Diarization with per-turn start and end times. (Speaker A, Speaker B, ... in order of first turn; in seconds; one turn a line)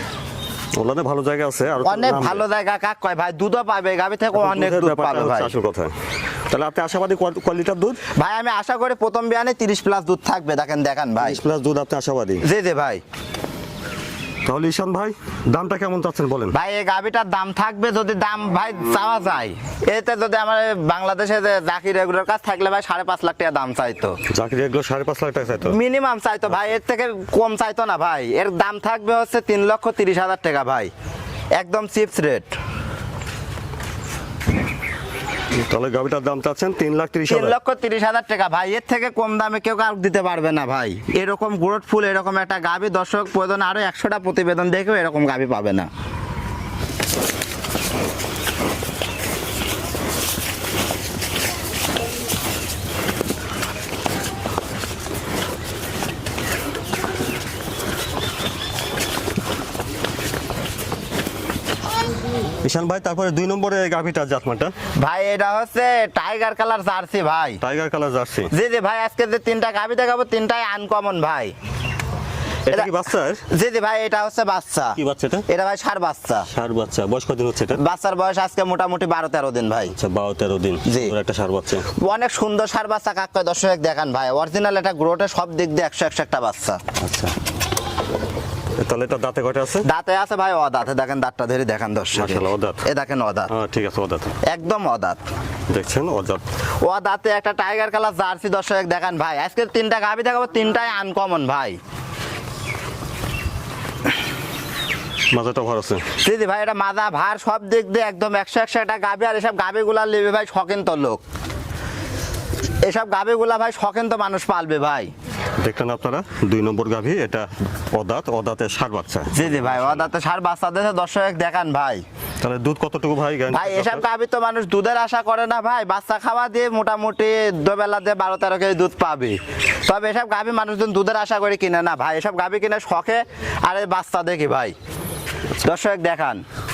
Speaker A: 0.7-2.4
Speaker B: 1.8-5.5
Speaker A: 4.3-5.9
Speaker A: 6.5-8.0
Speaker B: 8.2-11.4
Speaker A: 11.2-12.4
Speaker B: 12.4-13.0
Speaker A: 14.4-16.6
Speaker B: 16.5-24.1
Speaker A: 24.3-25.8
Speaker B: 25.6-30.9
Speaker B: 31.6-32.5
Speaker A: 35.5-37.5
Speaker B: 37.3-45.9
Speaker A: 62.6-64.7
Speaker B: 65.0-67.6
Speaker A: 67.6-68.5
Speaker B: 68.5-71.5
Speaker A: 72.7-73.4
Speaker B: 73.5-76.5
Speaker A: 75.0-75.5
Speaker A: 76.5-77.8
Speaker B: 77.7-79.9
Speaker A: 79.9-81.9
Speaker B: 80.8-81.1
Speaker B: 82.0-86.8
Speaker A: 87.0-87.3
Speaker A: 88.8-89.8
Speaker B: 89.8-93.5
Speaker A: 92.1-92.8
Speaker A: 93.5-94.3
Speaker B: 94.5-95.2
Speaker A: 95.7-96.4
Speaker B: 96.8-101.8
Speaker A: 105.3-106.0
Speaker B: 106.2-111.2
Speaker B: 112.8-115.1
Speaker A: 115.6-120.1
Speaker B: 119.3-122.0
Speaker A: 122.4-124.0
Speaker B: 123.5-134.7
Speaker B: 135.6-136.4